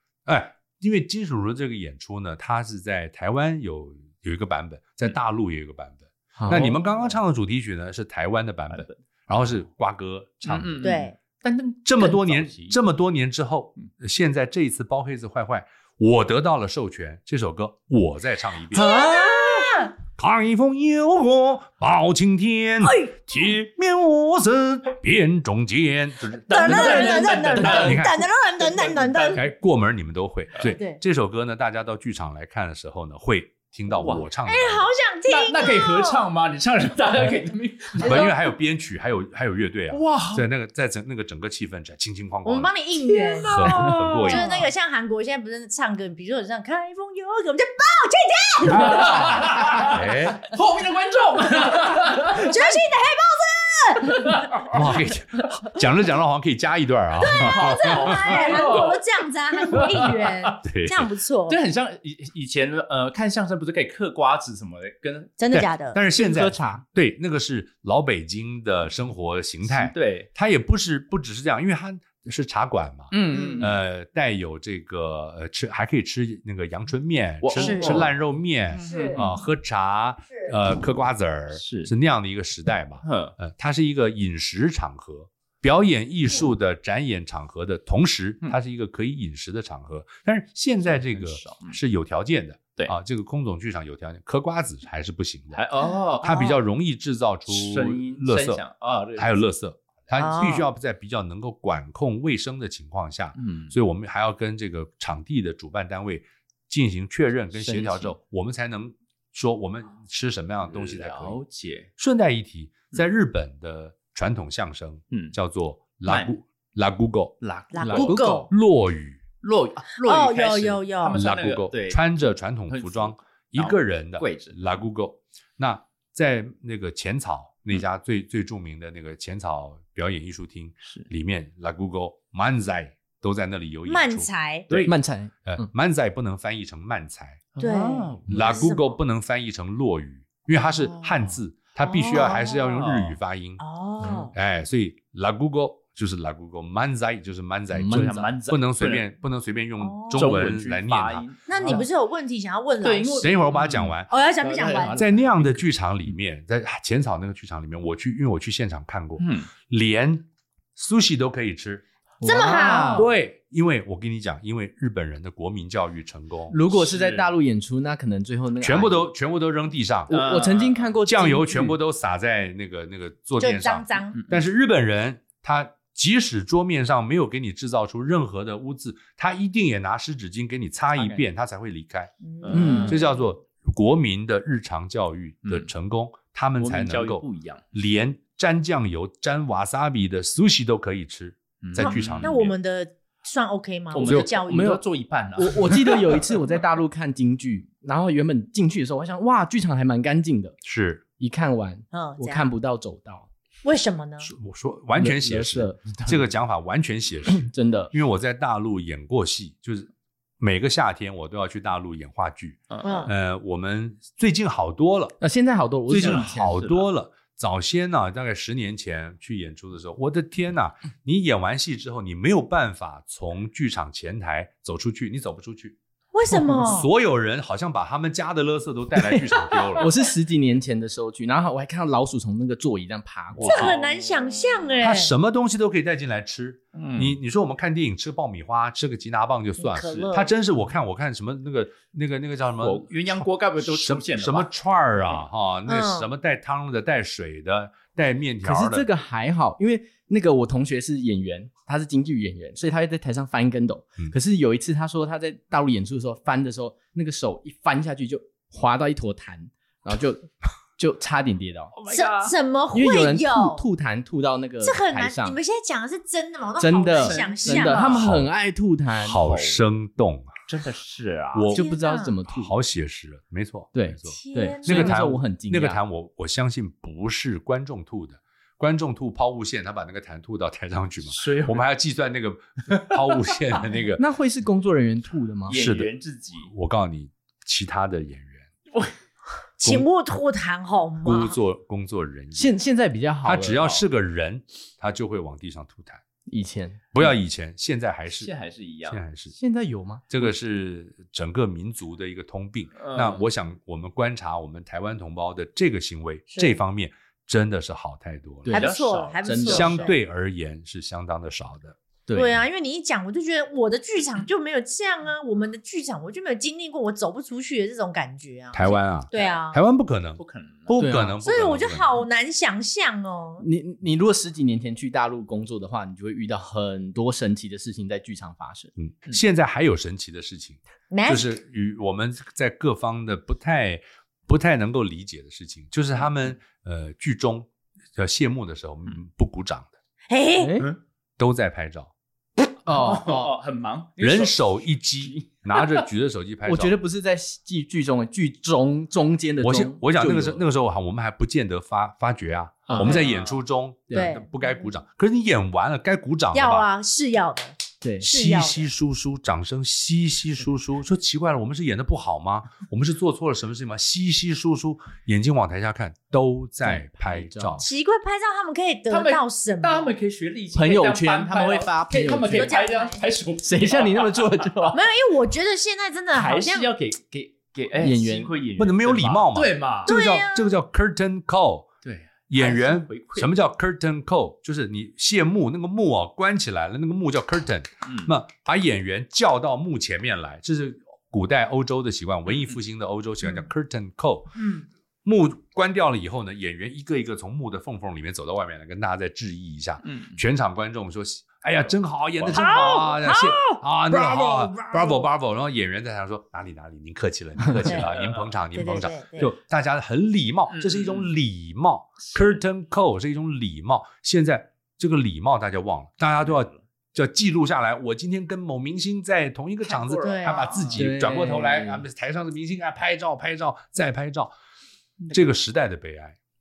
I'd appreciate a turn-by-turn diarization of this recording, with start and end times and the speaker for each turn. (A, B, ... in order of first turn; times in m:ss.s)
0:00.2-0:11.0 A
0:06.4-0:06.7 B
0:06.4-0:07.2 C
0:08.7-0:09.0 C
0:10.4-0:12.8 C
0:10.8-0:11.1 D
0:11.8-0:19.2 A
0:18.7-0:19.9 D
0:18.8-0:19.3 B
0:20.2-0:28.3 A
0:22.8-0:23.2 D
0:26.5-0:29.4 D
0:26.6-0:29.3 C
0:29.3-0:34.9 A
0:30.6-0:31.0 D
0:33.9-0:34.3 C
0:34.5-0:36.2 D
0:35.3-0:38.3 C
0:38.0-0:42.7 A
0:38.0-0:38.3 D
0:39.9-0:40.4 C
0:42.4-0:49.7 D
0:43.4-0:44.5 A
0:43.6-0:44.6 C
0:48.7-0:50.4 A
0:48.7-0:52.6 C
0:52.2-0:54.4 D
0:54.3-0:54.8 C
0:54.7-0:58.2 A
0:57.3-1:01.6 D
0:57.3-0:59.0 C
0:59.6-1:00.6 C
1:00.6-1:01.1 A
1:01.5-1:05.4 C
1:05.4-1:06.0 D
1:05.5-1:35.6 A
1:06.2-1:06.8 B
1:09.7-1:10.3 C
1:13.1-1:13.8 C
1:13.3-1:13.7 D
1:17.4-1:18.1 C
1:17.6-1:18.0 D
1:18.7-1:19.4 C
1:18.8-1:19.2 D
1:21.5-1:21.9 C
1:23.0-1:23.3 C
1:30.9-1:31.8 C
1:35.5-1:36.3 C
1:36.2-1:38.6 A
1:36.2-1:36.6 D
1:37.5-1:39.4 C
1:39.2-1:51.4 A
1:40.2-1:40.6 D
1:43.4-1:43.7 C
1:47.5-1:48.1 C
1:50.7-1:51.9 C
1:52.0-1:57.3 A
1:56.0-1:56.4 C
1:57.4-1:58.2 C
1:57.7-1:58.5 D
1:57.8-1:58.5 B
1:58.1-1:59.2 A
1:59.4-2:02.0 C
2:00.0-2:01.2 D
2:01.1-2:17.4 A
2:02.7-2:04.6 C
2:13.9-2:14.7 D
2:14.8-2:15.7 B
2:17.5-2:18.6 C
2:17.6-2:19.0 D
2:18.3-2:23.6 A
2:20.8-2:21.4 C
2:21.8-2:22.7 D
2:22.1-2:23.2 C
2:23.6-2:24.3 D
2:24.3-2:31.8 A
2:27.7-2:28.3 B
2:27.9-2:29.1 C
2:29.8-2:30.3 D
2:30.1-2:31.9 C
2:31.5-2:33.4 D
2:32.8-2:35.6 C
2:33.2-2:34.1 A
2:34.1-2:35.0 D
2:35.0-2:41.8 A
2:39.2-2:39.5 C
2:42.2-2:43.1 B
2:42.2-2:43.0 D
2:42.7-2:43.1 C
2:42.9-2:46.6 A
2:46.5-2:49.1 B
2:46.7-2:47.3 C
2:48.6-2:50.1 A
2:50.1-2:51.8 B
2:50.1-2:50.9 C
2:51.0-3:02.1 A
2:53.4-2:54.2 D
3:00.9-3:01.2 C
3:02.2-3:03.2 D
3:02.4-3:03.0 C
3:02.5-3:02.9 B
3:02.8-3:12.5 A
3:06.6-3:07.6 C
3:11.6-3:12.5 C
3:11.8-3:14.7 D
3:13.9-3:16.2 C
3:14.5-3:14.8 B
3:15.4-3:20.6 B
3:20.6-3:21.0 A
3:21.2-3:23.3 B
3:21.9-3:22.5 D
3:23.6-3:24.3 D
3:24.2-3:35.2 A
3:24.9-3:26.3 B
3:27.3-3:27.9 B
3:32.7-3:33.1 C
3:32.8-3:33.1 D
3:35.2-3:36.6 B
3:35.9-3:45.8 A
3:35.9-3:36.8 C
3:46.1-3:46.9 D
3:46.5-3:49.9 A
3:48.9-3:53.7 B
3:53.3-3:54.7 C
3:53.4-3:55.1 D
3:54.8-4:08.8 A
3:56.7-3:57.2 C
3:59.6-4:00.3 D
3:59.8-4:00.1 C
4:02.6-4:04.5 C
4:05.7-4:06.1 D
4:08.4-4:21.7 B
4:21.7-4:22.3 C
4:21.9-4:23.6 D
4:22.7-4:25.4 B
4:24.6-4:28.0 D
4:26.6-4:29.2 B
4:27.0-4:27.9 C
4:27.9-4:28.3 A
4:29.0-4:30.3 A
4:29.1-4:29.6 C
4:30.5-4:31.5 C
4:31.3-4:31.6 A
4:31.5-4:32.5 B
4:31.5-4:32.1 D
4:32.3-4:44.0 A
4:33.7-4:35.8 B
4:34.1-4:35.1 D
4:41.0-4:41.6 C
4:44.0-4:45.6 B
4:45.5-4:46.5 C
4:45.5-4:45.9 A
4:46.4-4:48.5 A
4:49.6-4:51.4 D
4:51.0-4:52.5 A
4:52.4-4:53.8 B
4:53.2-4:56.0 A
4:56.3-4:56.9 B
4:56.9-4:58.3 A
4:58.2-4:59.0 C
4:58.9-4:59.4 A
4:59.3-5:00.0 B
5:00.1-5:08.5 A
5:02.8-5:03.2 C
5:06.3-5:06.6 D
5:08.5-5:08.7 B
5:08.5-5:09.7 C
5:08.5-5:10.0 D
5:09.2-5:09.8 B
5:09.5-5:11.8 A
5:12.1-5:12.4 B
5:12.1-5:19.6 D
5:18.5-5:22.0 A
5:19.1-5:19.4 C
5:20.2-5:20.8 C
5:20.8-5:21.2 B
5:21.2-5:23.4 D
5:23.4-5:28.7 B
5:28.8-5:39.7 A
5:30.9-5:31.4 D
5:40.1-5:40.6 D
5:40.4-5:40.7 B
5:41.2-5:41.9 A
5:42.6-5:43.3 B
5:42.6-5:45.9 C
5:44.0-5:46.8 A
5:46.4-5:50.4 B
5:49.4-5:56.6 A
5:52.7-5:52.9 B
5:52.7-5:53.4 C
5:53.9-5:54.4 D
5:56.3-5:58.7 D
5:57.8-5:58.1 B
5:58.0-6:07.6 A
6:06.6-6:07.7 B
6:07.6-6:10.0 D
6:08.9-6:14.3 C
6:10.5-6:12.6 B
6:12.3-6:13.0 D
6:13.4-6:14.8 B
6:14.7-6:16.7 D
6:16.1-6:19.9 C
6:17.8-6:18.3 B
6:18.6-6:21.7 A
6:19.8-6:20.6 D
6:21.8-6:23.3 C
6:22.3-6:34.4 A
6:27.8-6:28.1 C
6:34.4-6:34.6 D
6:35.0-7:04.3 A
6:39.8-6:40.2 C
6:42.2-6:43.3 C
6:42.3-6:45.0 D
6:47.6-6:47.9 D
6:47.7-6:48.3 C
6:48.5-6:49.3 D
6:50.5-6:51.1 C
6:52.0-6:52.4 C
6:56.2-6:56.6 C
6:59.6-7:00.8 C
7:00.0-7:00.6 D
7:00.7-7:01.8 B
7:05.0-7:05.4 C
7:05.1-7:06.2 A